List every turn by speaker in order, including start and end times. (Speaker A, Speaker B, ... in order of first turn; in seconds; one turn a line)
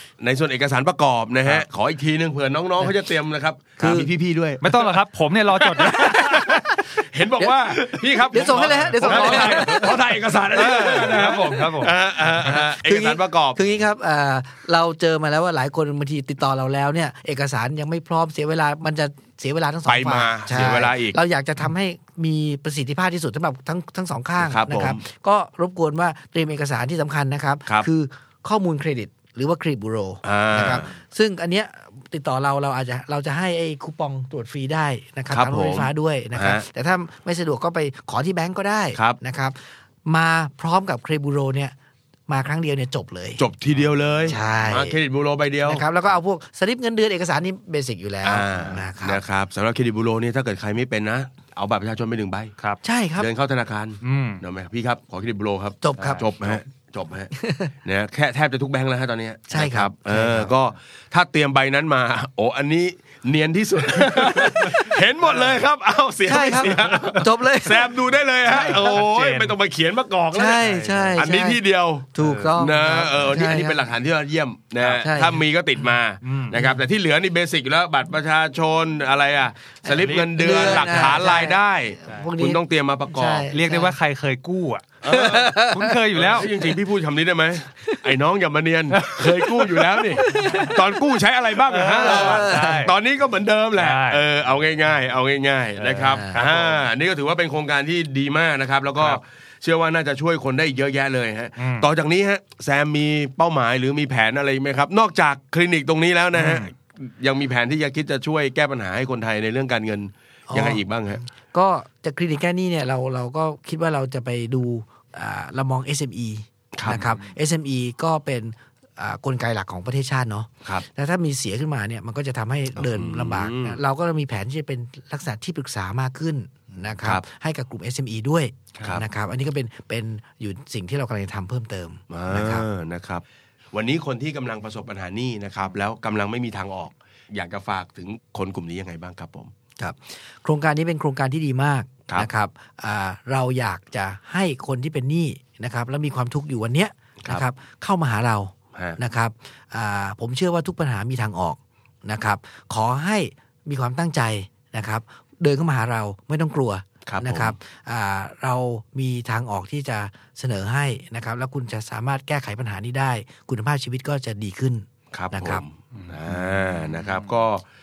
Speaker A: 0.2-5.0
Speaker B: 3.8-4.1
Speaker C: 4.6-6.8
Speaker A: 5.6-13.8
Speaker B: 8.3-10.0
Speaker C: 8.3-12.7
Speaker B: 10.7-11.3
Speaker B: 12.4-41.8
Speaker A: 19.9-21.2
Speaker A: 24.4-25.0
Speaker A: 30.2-30.9
Speaker A: 35.3-36.6
Speaker B: 42.3-43.4
Speaker A: 43.4-45.9
Speaker C: 43.7-44.4
Speaker B: 44.3-45.0
Speaker B: 45.6-49.2
Speaker A: 48.2-52.5
Speaker B: 52.8-53.3
Speaker A: 53.2-57.3
Speaker C: 54.0-54.4
Speaker B: 55.8-56.5
Speaker C: 56.0-56.3
Speaker B: 57.4-57.7
Speaker A: 57.8-83.5
Speaker B: 59.5-60.5
Speaker C: 64.4-65.6
Speaker B: 66.3-67.9
Speaker C: 68.5-69.6
Speaker B: 68.6-68.8
Speaker B: 70.3-71.6
Speaker C: 70.6-71.2
Speaker B: 72.1-73.8
Speaker C: 72.2-72.6
Speaker B: 74.8-75.4
Speaker C: 76.2-76.7
Speaker C: 79.9-81.3
Speaker B: 80.2-83.9
Speaker C: 83.5-86.5
Speaker A: 85.0-111.2
Speaker B: 85.1-85.9
Speaker C: 88.9-90.7
Speaker B: 90.2-90.8
Speaker C: 91.7-92.9
Speaker B: 92.0-92.8
Speaker C: 93.8-94.3
Speaker C: 95.8-96.8
Speaker B: 96.1-96.4
Speaker C: 101.6-101.9
Speaker B: 110.5-132.7
Speaker A: 116.7-117.0
Speaker C: 116.9-117.3
Speaker A: 122.8-123.8
Speaker A: 128.8-129.1
Speaker A: 132.1-139.5
Speaker B: 139.8-165.6
Speaker A: 157.1-157.6
Speaker A: 165.1-167.6
Speaker C: 165.9-167.4